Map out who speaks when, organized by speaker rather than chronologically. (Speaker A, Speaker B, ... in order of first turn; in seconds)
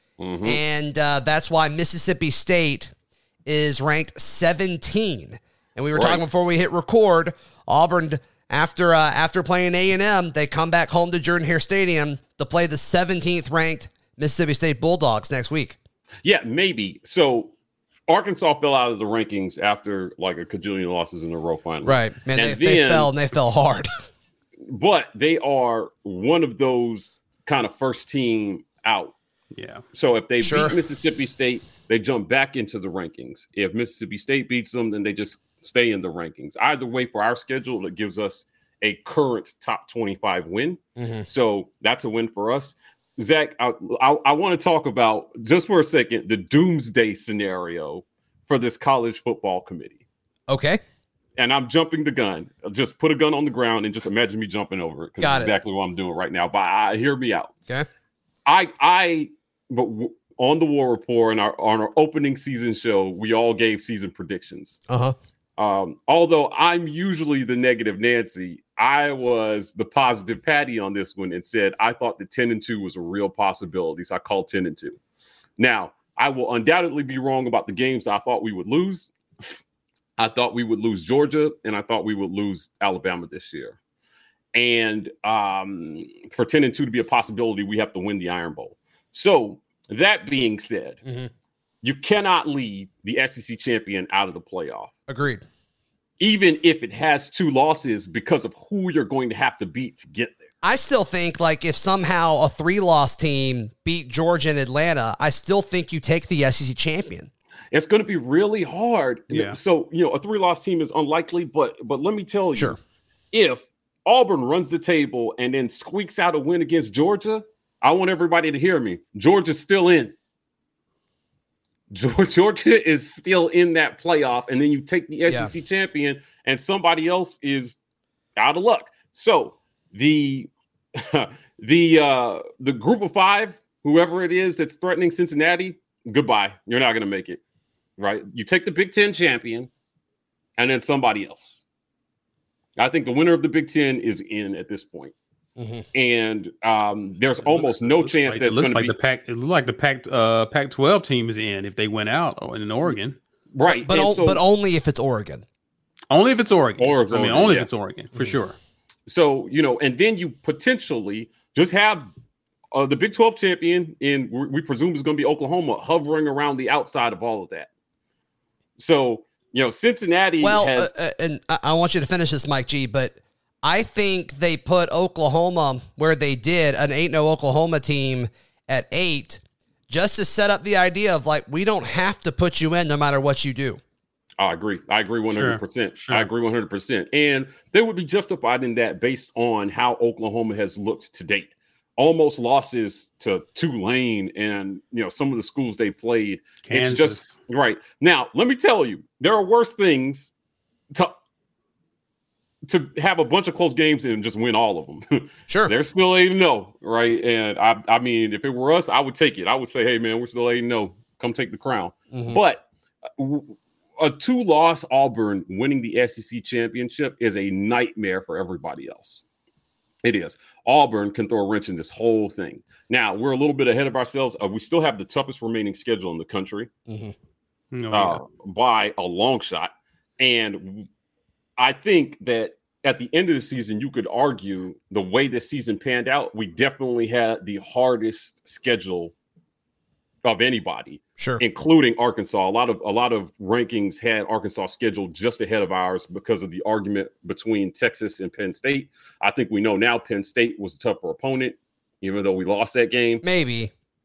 Speaker A: 0.2-0.6, 6.0-6.2, 16.2-17.5, 18.1-23.1, 24.7-29.1, 29.9-50.0, 51.4-57.5, 58.5-64.8, 65.6-75.0, 75.6-79.1, 80.2-83.8, 84.5-91.0, 91.8-94.9, 96.2-100.5, 107.7-112.8, 113.3-120.2, 121.9-127.8, 128.4-137.4, 138.0-139.7, 140.6-141.6, 142.8-145.1, 145.9-148.9, 153.5-154.4, 156.8-157.7, 159.1-162.1, 162.7-167.7, 168.8-170.9, 184.4-200.3, 202.7-212.6, 213.2-219.2, 220.0-226.7, 227.9-230.9, 231.6-239.1, 240.2-253.2
Speaker B: 0.4-2.9, 3.5-15.8, 21.9-23.9, 30.4-30.8, 41.0-41.3, 50.5-50.8, 55.2-55.5, 64.9-65.2, 95.1-95.5, 100.6-107.3, 145.6-145.9, 153.7-155.4, 170.4-183.8, 205.5-205.7, 212.1-212.4, 226.9-227.1, 253.2-253.7
Speaker C: 29.6-29.8, 109.3-109.6, 147.4-153.2, 156.1-158.6, 185.3-186.3, 196.6-197.3, 227.7-228.2